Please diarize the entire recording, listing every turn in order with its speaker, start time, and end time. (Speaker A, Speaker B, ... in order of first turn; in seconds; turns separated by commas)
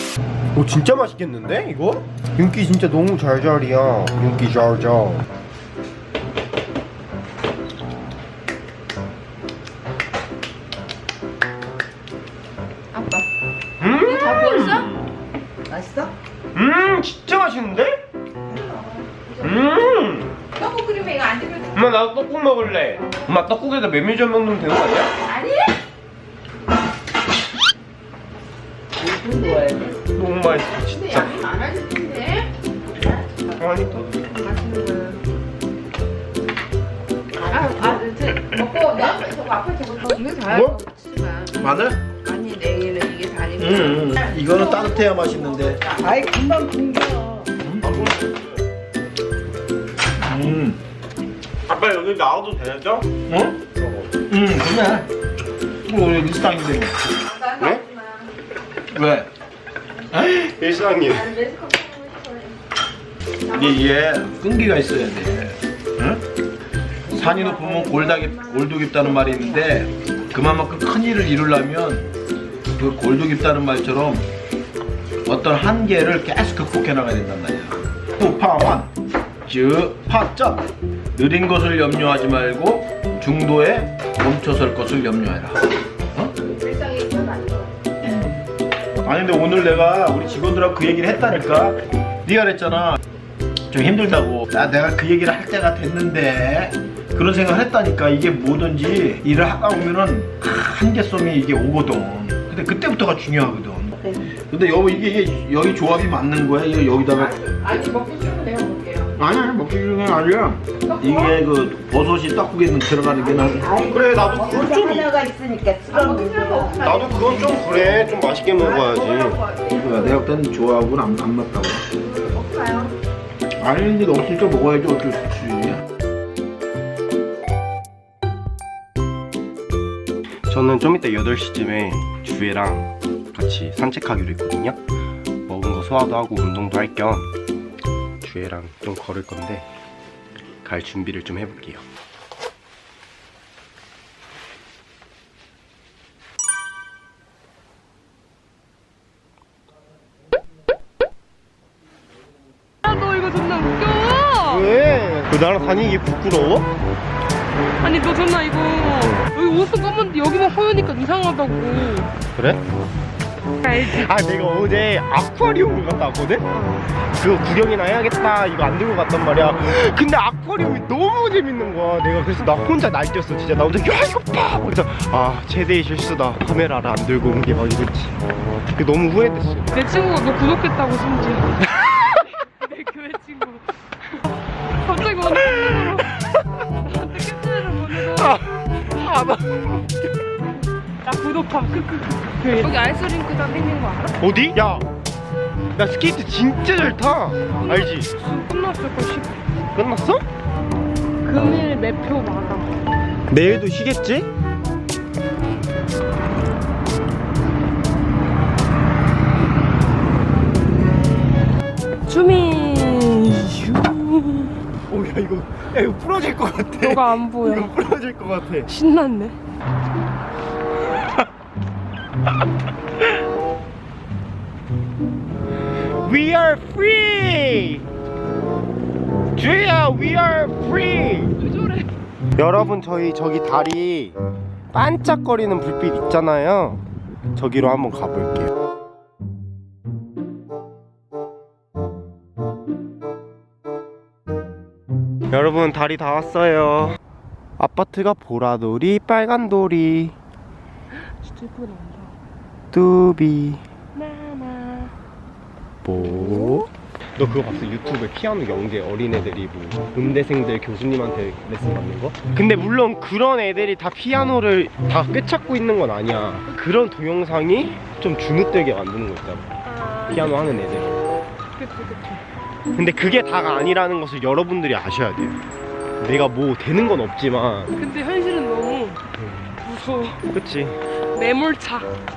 Speaker A: 0.5-5.3, Speaker B: 12.9-13.3, Speaker A: 13.8-14.9, Speaker B: 13.9-14.9, Speaker C: 15.7-16.1, Speaker A: 16.5-18.0, Speaker B: 18.5-19.6, Speaker A: 19.4-20.3, Speaker B: 20.6-21.8, Speaker A: 21.8-25.1, Speaker B: 25.2-25.8, Speaker C: 29.0-29.9, Speaker A: 30.1-31.4, Speaker B: 30.9-33.4, Speaker A: 33.6-34.1, Speaker B: 34.1-35.2, Speaker C: 37.4-38.0, Speaker B: 37.4-46.2, Speaker A: 40.5-40.8, Speaker D: 41.6-42.1, Speaker D: 43.6-45.8, Speaker C: 46.0-47.5, Speaker A: 47.8-48.4, Speaker D: 50.2-50.8, Speaker A: 51.7-53.2, Speaker D: 53.3-53.6, Speaker A: 53.8-54.1, Speaker D: 54.3-55.1, Speaker D: 55.9-57.1, Speaker B: 57.2-58.3, Speaker A: 57.5-57.8, Speaker D: 58.9-59.3, Speaker A: 60.1-61.3, Speaker B: 61.2-62.6, Speaker B: 63.5-64.0, Speaker D: 63.5-66.2, Speaker D: 67.1-72.1, Speaker B: 67.3-68.7, Speaker D: 72.8-74.3, Speaker D: 75.2-78.9, Speaker D: 79.5-86.3, Speaker B: 86.2-87.9, Speaker D: 88.0-88.4, Speaker D: 89.0-93.0, Speaker D: 93.7-107.4, Speaker B: 107.1-109.1, Speaker D: 109.2-114.4, Speaker B: 110.9-111.4, Speaker C: 113.2-116.8, Speaker A: 113.8-115.2, Speaker B: 114.0-114.7, Speaker B: 115.9-117.6, Speaker A: 116.8-119.4, Speaker B: 118.5-120.3, Speaker D: 119.7-121.8, Speaker B: 121.9-123.0, Speaker D: 123.6-125.8, Speaker A: 130.5-134.8, Speaker A: 135.5-137.3, Speaker A: 138.2-139.7, Speaker A: 140.6-141.8, Speaker E: 152.8-154.7, Speaker A: 154.4-156.7, Speaker E: 157.8-162.1, Speaker A: 162.4-162.6, Speaker E: 163.6-164.2, Speaker A: 163.7-179.7, Speaker E: 166.6-166.8, Speaker E: 179.7-188.4, Speaker A: 187.9-190.1, Speaker E: 191.0-194.2, Speaker A: 194.2-194.9, Speaker A: 195.8-198.1, Speaker E: 197.5-199.4, Speaker A: 199.8-200.2, Speaker E: 201.2-202.8, Speaker A: 203.3-204.3, Speaker E: 212.1-214.6, Speaker A: 214.9-218.7, Speaker E: 216.8-217.7, Speaker E: 218.7-219.4, Speaker A: 225.9-227.9, Speaker A: 229.3-231.4, Speaker E: 231.4-231.9, Speaker A: 232.4-234.2, Speaker A: 234.7-238.5, Speaker A: 245.3-247.0, Speaker A: 247.6-250.2, Speaker E: 250.9-252.2, Speaker A: 252.7-253.6, Speaker E: 253.9-254.9, Speaker A: 255.8-269.5, Speaker E: 256.0-256.7, Speaker E: 269.7-270.4, Speaker A: 270.1-271.0, Speaker E: 271.6-272.2, Speaker A: 272.8-275.4, Speaker A: 276.0-277.7, Speaker E: 277.8-280.3, Speaker A: 280.3-280.8, Speaker E: 281.1-281.9